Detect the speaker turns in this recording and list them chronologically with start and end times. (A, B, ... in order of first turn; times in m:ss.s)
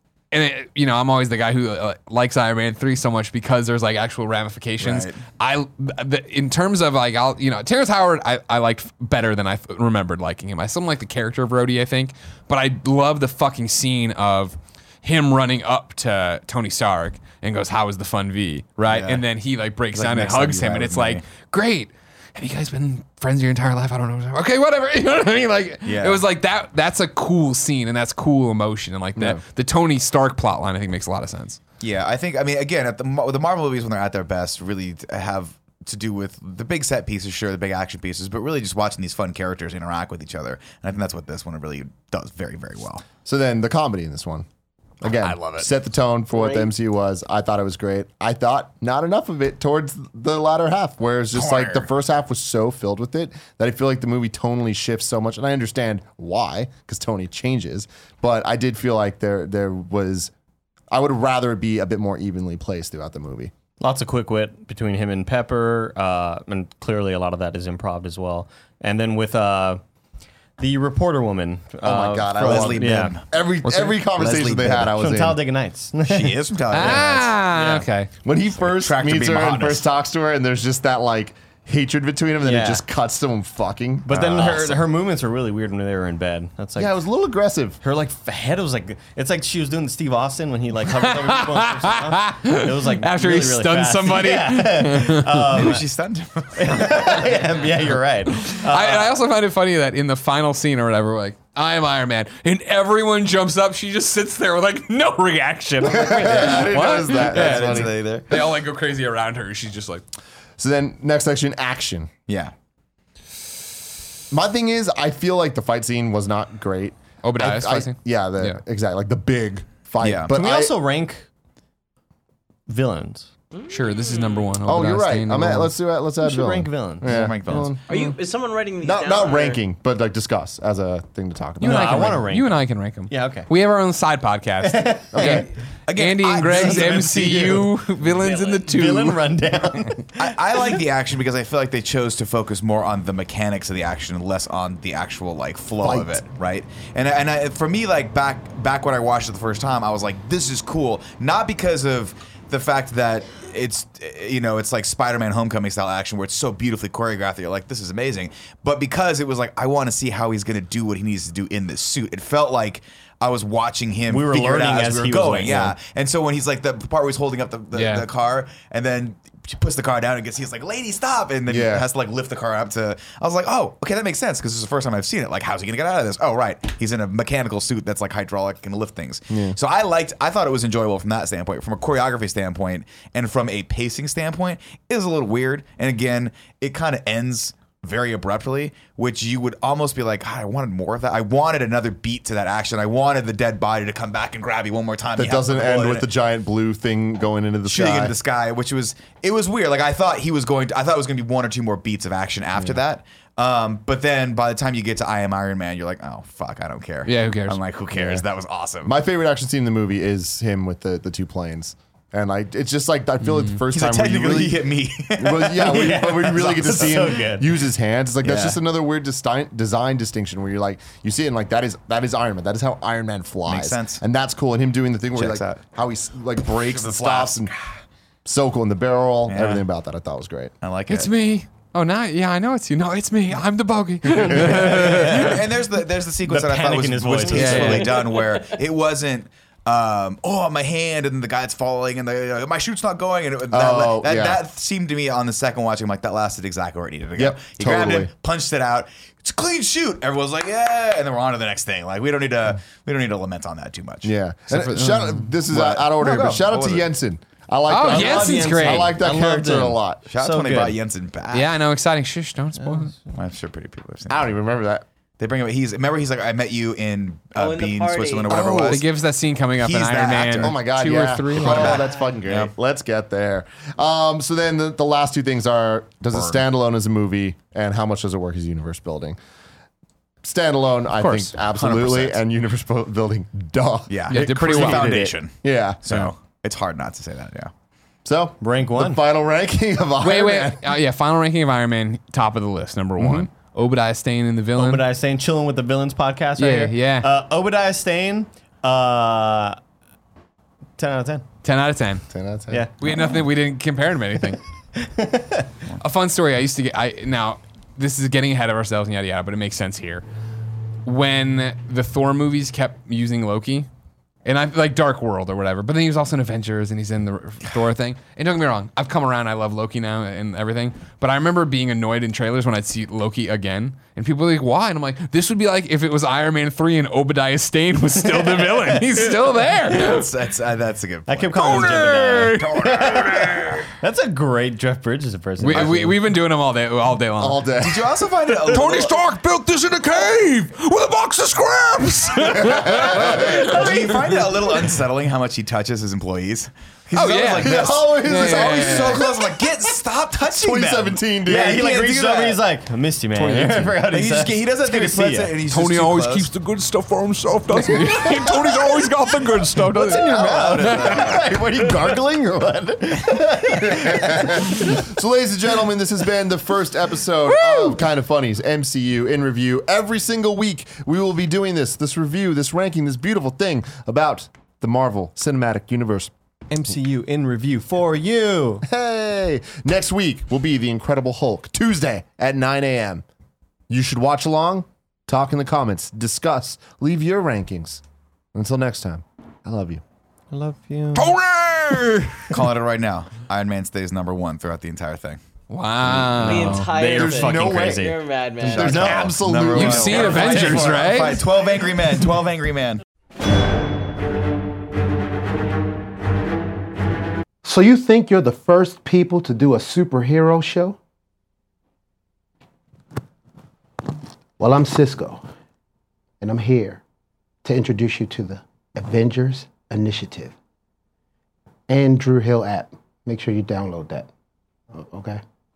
0:00.3-0:31.6 A
0:04.8-0:05.2 B
0:18.8-0:19.2 B
0:19.9-0:21.2 B
0:25.8-0:26.2 B
0:31.8-0:43.0 B
0:43.2-0:44.4 C
0:45.0-1:00.3 C
0:45.0-0:45.7 B
0:46.3-0:46.7 D
0:51.3-0:51.9 B
1:00.9-1:03.5 C
1:03.8-1:09.8 E
1:10.6-1:13.2 E
1:11.8-1:15.4 C
1:12.4-1:13.2 B
1:13.6-1:14.0 A
1:14.1-1:14.9 B
1:14.9-1:17.9 E
1:16.0-1:17.4 B
1:16.7-1:18.1 A
1:18.2-1:24.1 C
1:18.6-1:19.8 B
1:22.4-1:22.8 E
1:24.0-1:26.9 E
1:24.1-1:24.9 B
1:26.8-1:27.8 C
1:27.8-1:35.8 E
1:30.9-1:35.7 A
1:35.5-1:37.4 B
1:36.6-1:39.2 E
1:38.3-1:50.0 A
1:45.8-1:47.9 C
1:46.3-1:48.4 B
1:50.6-1:52.1 C
1:52.3-1:52.5 B
1:54.3-2:00.7 C
1:57.2-1:58.6 A
2:00.0-2:00.4 B
2:00.3-2:01.3 E
2:02.7-2:03.3 E
2:03.5-2:04.6 D
2:03.7-2:05.7 A
2:04.6-2:08.2 C
2:06.2-2:07.1 E
2:07.0-2:07.8 B
2:07.9-2:09.6 D
2:08.8-2:12.2 C
2:11.6-2:13.5 E
2:11.6-2:19.4 A
2:14.6-2:15.3 E
2:15.1-2:15.5 C
2:15.9-2:17.6 B
2:16.4-2:20.8 E
2:20.2-3:16.1 B
2:25.8-2:26.2 C
2:44.1-2:45.7 E
2:45.4-2:45.7 C
2:47.7-2:48.0 A
2:51.5-2:51.8 C
2:59.3-2:59.6 C
3:15.2-3:18.2 C
3:17.6-3:29.0 B
3:27.0-3:27.6 A
3:27.9-3:28.2 C
3:28.8-3:47.5 C
3:33.7-3:37.2 B
3:35.5-3:37.5 E
3:38.2-3:38.6 B
3:43.5-3:44.0 B
3:45.1-3:45.6 B
3:46.4-3:47.5 B
3:48.2-3:50.5 C
3:49.3-3:49.6 B
3:50.6-3:51.1 B
3:50.9-3:55.6 A
3:54.2-4:14.1 B
3:54.8-3:55.3 E
3:56.2-3:58.2 E
3:57.3-3:57.9 A
4:03.5-4:04.4 C
4:07.2-4:08.1 C
4:14.0-4:20.0 C
4:14.5-4:15.3 A
4:15.5-4:16.9 B
4:17.7-4:19.0 A
4:17.8-4:20.8 E
4:20.1-4:21.5 B
4:21.3-4:22.9 A
4:23.1-4:24.3 B
4:24.1-4:24.8 C
4:25.2-4:28.9 B
4:27.3-4:28.4 D
4:28.3-4:31.8 A
4:28.3-4:28.8 C
4:29.6-4:30.6 B
4:30.4-4:39.2 C
4:31.3-4:32.5 B
4:36.1-4:36.4 B
4:40.2-4:45.8 C
4:41.0-4:41.3 A
4:41.5-4:42.2 B
4:43.9-4:47.5 B
4:44.1-4:44.9 A
4:48.0-4:50.8 C
4:48.4-4:49.0 E
4:50.0-4:54.8 A
4:53.0-4:53.3 C
4:54.6-4:59.6 E
4:56.4-4:57.1 A
5:00.8-5:01.3 E
5:01.4-5:02.0 A
5:02.1-5:02.7 C
5:02.5-5:03.1 E
5:02.8-5:04.4 A
5:04.8-5:05.5 E
5:05.8-5:10.0 A
5:10.8-5:13.7 A
5:14.2-5:30.1 A
5:28.0-5:29.0 E
5:29.6-5:33.6 B
5:31.1-5:36.0 E
5:31.3-5:33.6 A
5:35.4-5:37.4 A
5:37.2-5:38.0 C
5:37.6-5:39.0 B
5:38.3-5:44.0 A
5:42.2-5:43.6 C
5:42.7-5:52.4 B
5:43.6-5:44.4 E
5:46.9-5:49.0 A
5:47.4-5:49.5 C
5:50.3-5:51.6 C
5:51.3-5:55.4 E
5:53.2-5:53.7 A
5:53.9-5:56.3 B
5:55.4-6:00.1 A
5:57.5-5:58.6 E
5:59.5-6:02.0 E
5:59.9-6:01.2 B
6:00.6-6:16.1 C
6:02.6-6:04.9 E
6:16.5-6:18.6 E
6:18.6-6:23.0 C
6:23.7-6:27.8 C
6:28.3-6:29.8 C
6:30.3-6:31.2 E
6:30.9-6:32.3 A
6:32.3-6:35.2 B
6:35.5-6:36.7 A
6:35.9-6:41.0 E
6:36.2-6:39.0 D
6:36.9-6:40.6 C
6:38.4-6:42.8 B
6:39.5-6:41.2 A
6:47.4-6:50.8 F
6:54.4-6:55.2 F
6:56.2-6:56.8 F
6:57.4-7:00.3 F
7:01.7-7:04.1 F
7:04.7-7:05.2 F